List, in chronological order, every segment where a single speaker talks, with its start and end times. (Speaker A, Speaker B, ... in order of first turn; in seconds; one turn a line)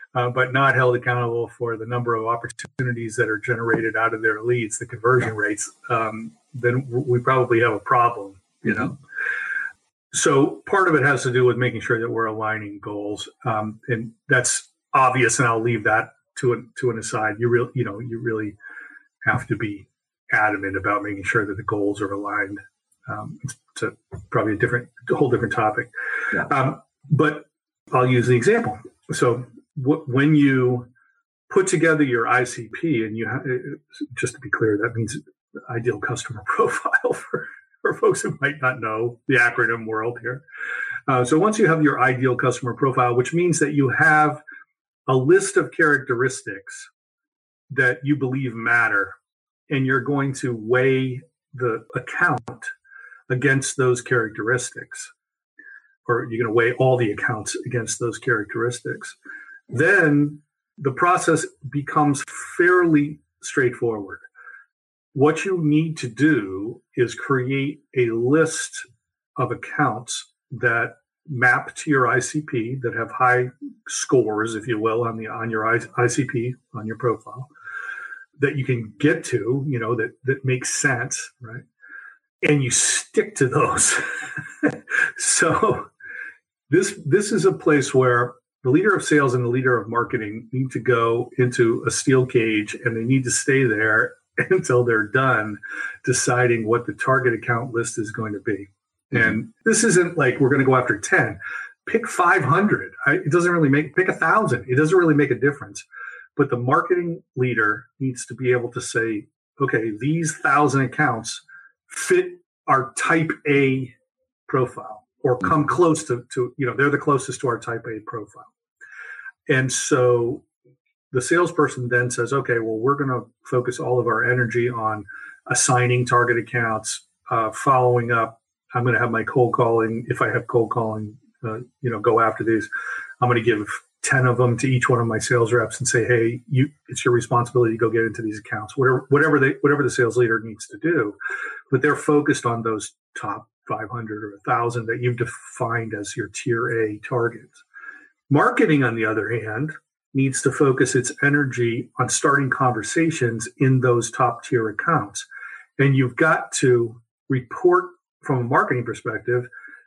Speaker A: 0.1-9.0
Speaker A: 10.1-18.6
Speaker A: 19.2-30.9
Speaker A: 31.5-40.4
Speaker A: 41.1-44.4
Speaker A: 45.1-46.9
Speaker A: 47.7-49.2
Speaker A: 49.7-52.7
Speaker A: 53.3-55.1
Speaker A: 56.1-59.2
Speaker A: 59.7-64.2
Speaker A: 65.1-68.8
Speaker A: 69.4-77.5
Speaker A: 78.4-81.6
Speaker A: 82.4-85.9
Speaker A: 86.7-105.8
Speaker A: 106.4-113.9
Speaker A: 114.5-118.5
Speaker A: 119.5-120.5
Speaker A: 121.1-132.7
Speaker A: 133.2-141.2
Speaker A: 141.7-147.6
Speaker A: 148.3-155.3
Speaker A: 155.8-159.5